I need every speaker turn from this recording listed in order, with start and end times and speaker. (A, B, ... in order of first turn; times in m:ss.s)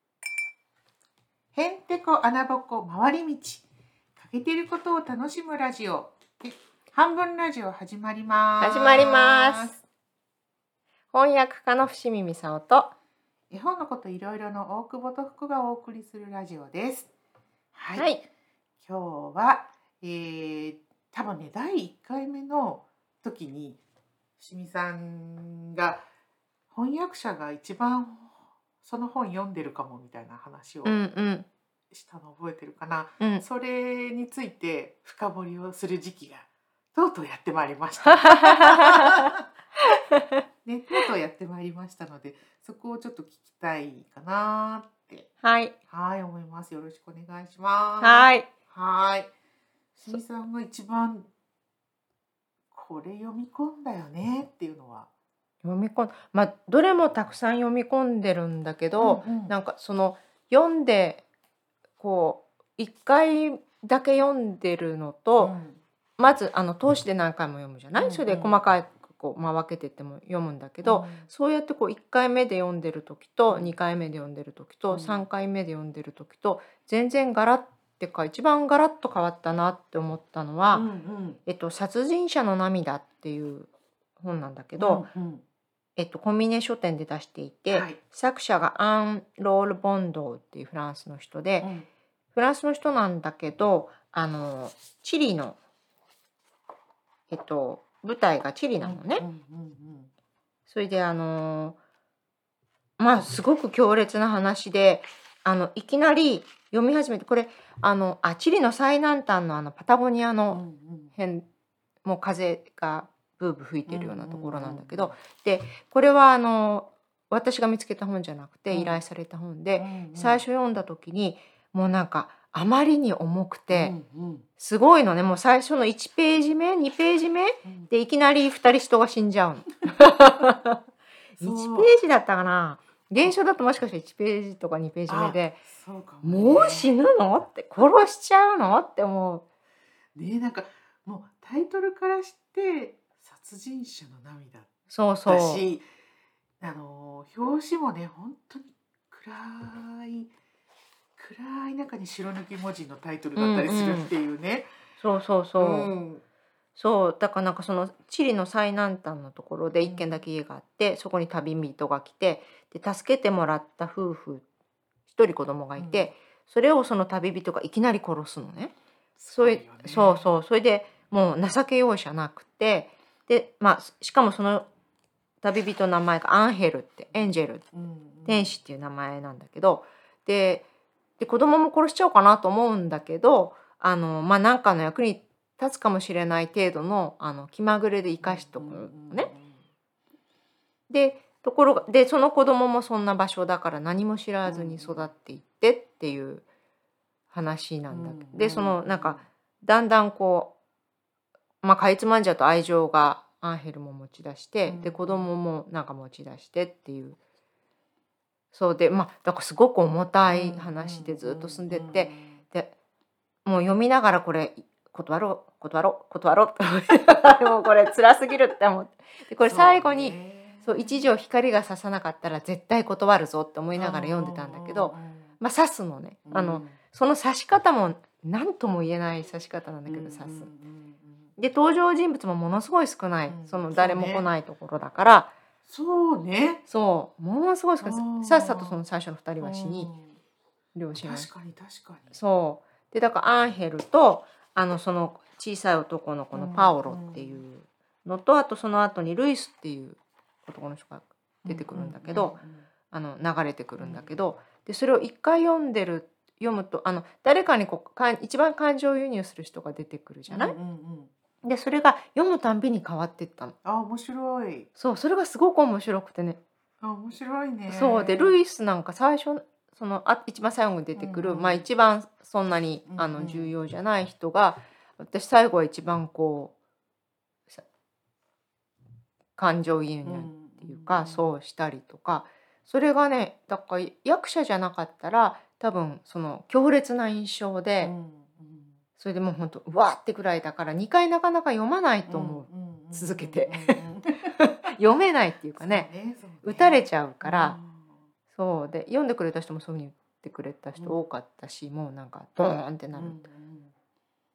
0:01.5-0:03.6 A
0:04.2-0:09.8 A
0:08.6-0:09.7 B
0:11.1-0:12.9 B
0:13.5-0:17.1 A
0:17.7-0:18.1 A
0:17.9-0:18.2 B
0:18.8-0:23.8 A
0:24.4-0:26.0 A
0:26.7-0:31.0 A
0:30.8-0:31.5 B
0:31.9-0:39.4 A
0:38.0-0:40.4 B
0:40.6-0:45.3 A
0:45.4-0:45.7 B
0:45.9-0:49.3 A
0:48.0-0:48.5 B
0:49.9-0:51.3 A
0:52.7-0:55.1 A
0:55.6-1:01.2 B
0:59.0-0:59.5 A
1:02.0-1:05.5 B
1:05.4-1:05.8 A
1:06.2-1:20.8 B
1:07.9-1:08.6 A
1:10.8-1:11.3 A
1:13.5-1:13.8 A
1:14.9-1:15.3 A
1:20.7-1:21.4 A
1:21.4-1:25.0 B
1:24.8-1:25.4 A
1:26.0-1:31.7 B
1:27.7-1:28.0 A
1:31.6-1:31.9 A
1:32.3-1:35.6 B
1:37.3-1:39.2 B
1:38.8-1:40.1 A
1:40.7-1:41.8 B
1:43.0-1:50.6 B
1:50.5-1:51.1 A
1:51.1-1:51.4 B
1:52.0-2:03.9 B
1:53.9-1:55.2 A
1:58.7-1:59.0 A
1:59.8-2:00.4 A
2:03.7-2:04.4 A
2:04.6-2:10.8 B
2:07.6-2:07.9 A
2:11.4-2:15.6 B
2:11.4-2:11.9 A
2:15.1-2:17.0 A
2:16.2-2:19.4 B
2:20.1-2:24.7 A
2:24.9-2:25.6 B
2:25.2-2:25.8 A
2:26.6-2:30.3 A
2:31.2-2:34.7 A
2:33.4-2:34.1 B
2:35.0-2:35.9 B
2:35.6-2:36.2 A
2:36.8-2:44.4 B
2:39.7-2:40.2 A
2:45.1-2:48.7 B
2:45.8-2:46.1 A
2:49.2-2:50.3 A
2:49.3-2:54.7 B
2:55.4-2:57.6 B
2:57.1-2:58.6 A
2:58.2-3:00.6 B
3:01.2-3:09.3 B
3:08.2-3:09.6 A
3:10.9-3:16.4 B
3:14.4-3:15.1 A
3:17.3-3:20.5 B
3:17.9-3:19.2 A
3:21.6-3:27.2 B
3:24.6-3:25.3 A
3:28.5-3:32.7 B
3:30.3-3:32.4 A
3:33.4-3:50.5 B
3:39.4-3:41.1 A
3:43.7-3:45.3 A
3:46.2-3:46.8 A
3:49.8-3:51.3 A
3:51.4-3:55.3 B
3:53.3-3:54.3 A
3:55.7-3:56.6 A
3:56.7-3:59.9 B
3:57.8-3:58.8 A
3:59.4-4:00.2 A
4:00.7-4:01.3 B
4:01.0-4:02.1 A
4:02.1-4:20.6 B
4:06.3-4:07.4 A
4:11.4-4:12.7 A
4:13.8-4:14.1 A
4:20.3-4:21.1 A
4:21.4-4:23.5 B
4:23.6-4:24.7 A
4:24.8-4:26.4 B
4:26.8-4:28.4 A
4:27.7-4:36.5 B
4:30.9-4:31.7 A
4:32.9-4:33.5 A
4:39.4-4:47.9 B
4:40.0-4:41.2 A
4:47.8-4:48.8 A
4:49.0-4:55.9 B
4:52.1-4:54.3 A
4:55.6-4:58.0 A
4:56.4-4:57.6 B
4:58.3-5:03.2 B
5:02.9-5:03.7 A